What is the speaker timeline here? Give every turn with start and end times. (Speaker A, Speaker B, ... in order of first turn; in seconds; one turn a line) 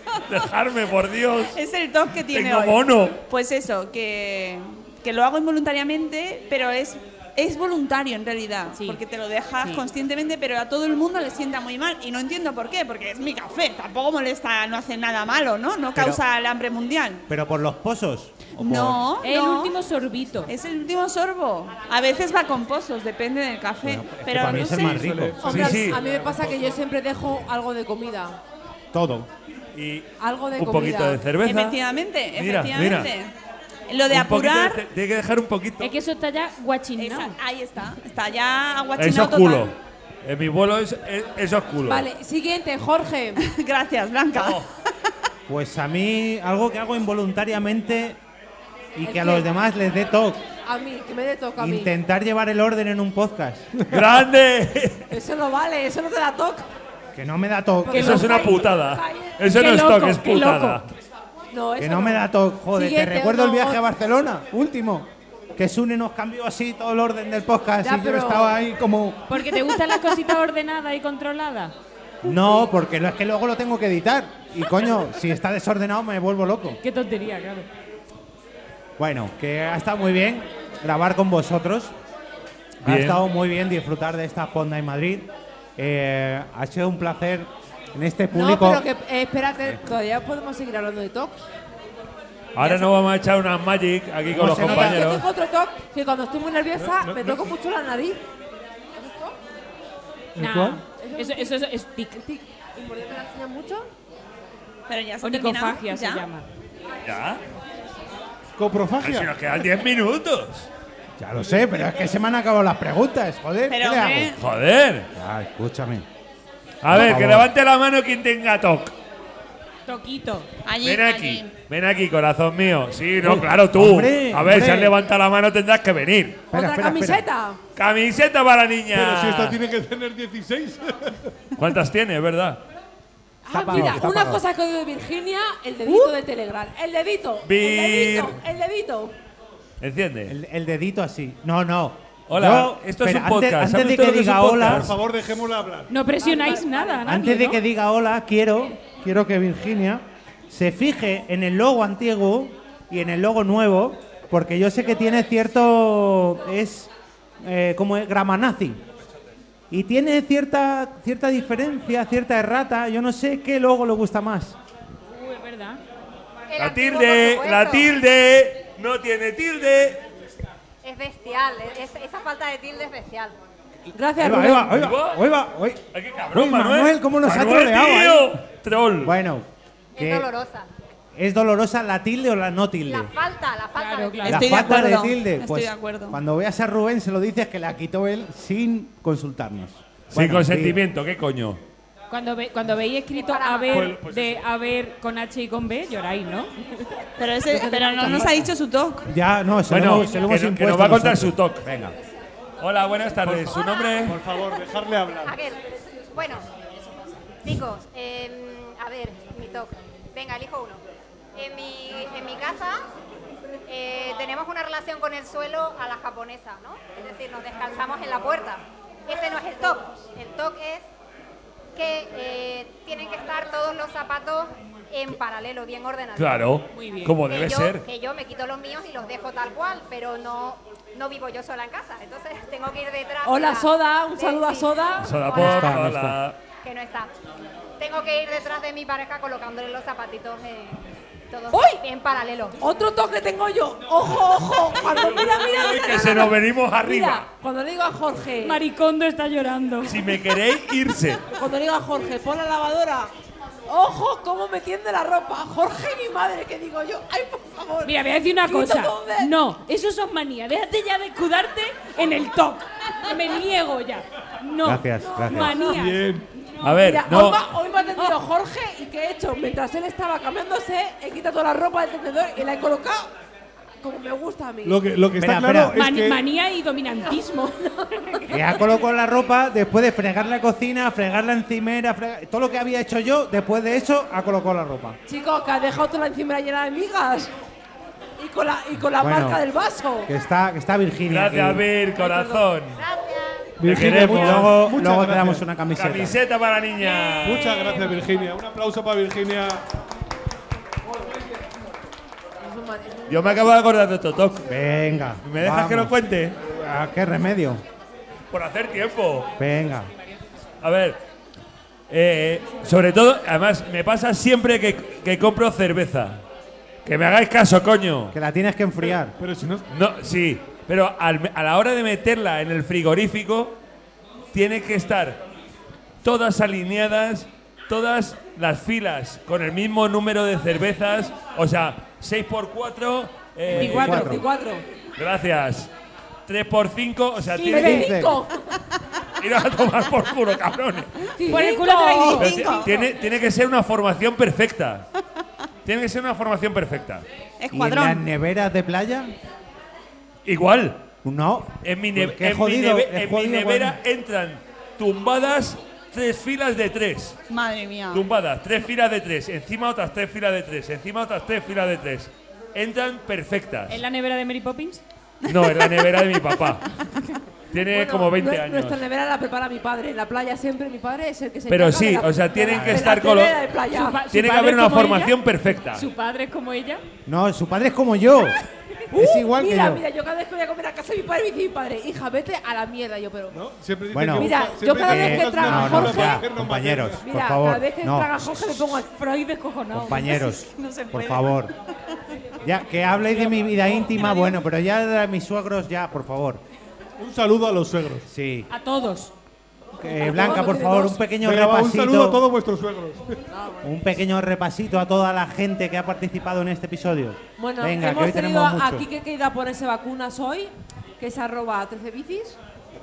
Speaker A: 0.3-1.6
Speaker B: 1.5-17.2
Speaker A: 2.3-3.2
Speaker C: 8.7-9.0
Speaker D: 17.3-19.0
Speaker B: 18.6-19.7
Speaker C: 19.2-20.5
Speaker B: 20.5-25.1
Speaker D: 23.8-25.4
Speaker E: 24.4-26.8
Speaker F: 25.4-28.4
Speaker A: 25.4-26.0
Speaker D: 28.9-29.3
Speaker A: 29.7-31.8
Speaker F: 30.2-31.3
Speaker B: 31.4-33.3
Speaker A: 32.4-33.1
Speaker B: 33.9-34.8
Speaker A: 34.1-35.9
Speaker C: 35.8-37.3
Speaker B: 37.0-39.7
Speaker A: 39.0-42.1
Speaker F: 41.8-43.4
Speaker B: 43.4-44.6
Speaker A: 44.4-44.7
Speaker D: 45.5-48.2
Speaker D: 49.0-50.4
Speaker F: 49.0-49.5
Speaker F: 50.6-51.9
Speaker D: 51.6-53.7
Speaker A: 53.9-55.1
Speaker F: 55.1-56.7
Speaker D: 57.1-58.2
Speaker F: 57.8-59.3
Speaker A: 57.9-60.9
Speaker C: 58.0-58.3
Speaker C: 59.5-60.8
Speaker F: 61.5-63.8
Speaker D: 61.8-69.3
Speaker F: 67.8-68.5
Speaker C: 69.3-71.7
Speaker D: 72.2-76.8
Speaker C: 76.8-77.7
Speaker D: 79.0-81.9
Speaker A: 82.8-83.2
Speaker D: 82.8-88.8
Speaker F: 88.3-91.4
Speaker A: 92.5-95.2
Speaker D: 94.3-95.1
Speaker F: 94.4-98.2
Speaker E: 96.8-97.5
Speaker F: 99.0-99.4
Speaker E: 100.4-100.8
Speaker C: 100.4-102.2
Speaker F: 101.0-101.6
Speaker F: 102.2-103.9
Speaker B: 104.9-106.2
Speaker C: 105.2-106.5
Speaker A: 107.0-107.4
Speaker E: 108.6-109.3
Speaker A: 109.0-110.7
Speaker D: 111.2-114.3
Speaker B: 113.7-114.4
Speaker A: 114.4-115.1
Speaker D: 115.1-116.1
Speaker A: 116.8-118.9
Speaker D: 116.9-117.5
Speaker C: 119.9-120.5
Speaker B: 120.7-121.5
Speaker A: 120.8-126.4
Speaker D: 123.2-125.0
Speaker D: 126.5-127.2
Speaker F: 126.5-127.6
Speaker A: 127.8-129.6
Speaker E: 128.9-131.3
Speaker A: 131.6-132.6
Speaker F: 133.4-139.1
Speaker D: 133.5-134.4
Speaker C: 135.8-136.1
Speaker A: 137.4-138.4
Speaker A: 139.8-140.3
Speaker D: 140.3-144.9
Speaker A: 142.3-144.9
Speaker E: 144.6-145.9
Speaker C: 145.9-147.6
Speaker F: 146.2-147.2
Speaker D: 147.1-158.8
Speaker D: 159.7-164.6
Speaker C: 165.1-165.8
Speaker G: 166.5-167.9
Speaker A: 166.6-170.0
Speaker G: 170.8-173.3
Speaker F: 173.9-174.8
Speaker D: 174.2-178.4
Speaker A: 174.7-175.2
Speaker A: 175.9-179.1
Speaker D: 179.0-179.5
Speaker G: 180.0-180.7
Speaker D: 180.0-180.3
Speaker D: 181.2-183.1
Speaker G: 182.9-184.9
Speaker C: 183.8-184.7
Speaker B: 184.3-186.2
Speaker D: 184.3-190.8
Speaker A: 190.1-191.6
Speaker C: 192.1-196.9
Speaker G: 193.1-194.0
Speaker E: 193.7-194.4
Speaker B: 197.2-199.1
Speaker F: 197.5-198.3
Speaker D: 199.1-202.0
Speaker A: 199.7-201.7
Speaker A: 202.6-204.2
Speaker E: 203.2-205.4
Speaker G: 205.2-205.6
Speaker G: 206.1-206.5
Speaker G: 207.4-210.8
Speaker G: 211.3-212.8
Speaker G: 213.7-220.8
Speaker G: 221.8-226.6
Speaker A: 226.2-227.8
Speaker C: 226.7-227.2
Speaker G: 227.2-235.8
Speaker F: 233.2-235.2
Speaker A: 235.0-236.4
Speaker D: 235.3-236.2
Speaker G: 236.6-237.1
Speaker G: 237.8-242.6
Speaker F: 241.5-241.8
Speaker F: 242.6-248.6
Speaker A: 244.8-247.3
Speaker C: 248.4-250.0
Speaker A: 249.8-251.2
Speaker F: 251.3-253.1
Speaker F: 253.7-259.3
Speaker C: 257.8-266.7
Speaker D: 264.6-265.6
Speaker F: 265.0-265.9
Speaker E: 265.7-266.3
Speaker A: 266.6-267.4
Speaker F: 266.7-273.1
Speaker F: 273.8-274.8
Speaker E: 274.6-276.2
Speaker D: 275.2-275.8
Speaker C: 275.7-278.6
Speaker D: 278.3-285.0
Speaker F: 285.1-287.3
Speaker F: 288.2-290.1
Speaker D: 289.0-289.4
Speaker D: 290.1-291.7
Speaker A: 291.1-292.8
Speaker F: 292.0-292.5
Speaker G: 292.7-293.6
Speaker E: 293.6-295.4
Speaker A: 293.6-294.5
Speaker D: 293.7-296.2
Speaker A: 295.8-297.5
Speaker E: 297.2-299.6
Speaker C: 297.4-297.9
Speaker F: 302.4-303.5
Speaker A: 303.1-304.5
Speaker D: 304.5-307.6
Speaker A: 305.2-306.4
Speaker A: 308.3-309.3
Speaker D: 309.4-309.9
Speaker A: 310.6-311.0
Speaker A: 311.9-316.2
Speaker A: 316.9-318.1
Speaker D: 318.1-319.1
Speaker E: 319.2-319.6
Speaker A: 319.7-323.6
Speaker A: 324.3-325.2
Speaker A: 326.0-334.2
Speaker F: 333.5-334.6
Speaker D: 333.5-334.2
Speaker A: 335.0-335.7
Speaker A: 336.3-337.9
Speaker F: 337.3-338.6
Speaker D: 337.5-338.2
Speaker C: 337.5-337.8
Speaker A: 339.2-341.1
Speaker F: 341.2-342.3
Speaker C: 341.3-342.8
Speaker B: 341.9-342.8
Speaker A: 342.2-344.9
Speaker A: 345.6-347.1
Speaker B: 347.4-348.0
Speaker D: 347.5-349.1
Speaker A: 350.2-350.9
Speaker D: 351.0-353.8
Speaker A: 351.6-357.2
Speaker B: 357.3-358.1
Speaker A: 357.9-363.8
Speaker C: 363.7-364.8
Speaker A: 365.3-366.7
Speaker A: 367.5-368.8
Speaker F: 367.7-374.0
Speaker A: 371.5-373.5
Speaker D: 372.5-372.9
Speaker C: 373.7-375.2
Speaker A: 374.1-375.9
Speaker C: 375.7-376.8
Speaker D: 377.1-378.4
Speaker F: 378.9-383.4
Speaker D: 378.9-379.8
Speaker E: 383.3-387.0
Speaker D: 383.9-388.7
Speaker F: 384.1-386.2
Speaker F: 387.0-388.9
Speaker C: 388.8-390.3
Speaker D: 389.7-391.5
Speaker B: 390.0-392.0
Speaker D: 392.4-396.4
Speaker E: 393.0-394.1
Speaker E: 397.0-398.1
Speaker D: 398.1-398.5
Speaker C: 398.5-399.1
Speaker F: 399.8-401.1
Speaker D: 399.8-402.2
Speaker E: 401.2-403.2
Speaker F: 403.3-403.7
Speaker D: 403.6-408.9
Speaker F: 407.4-412.4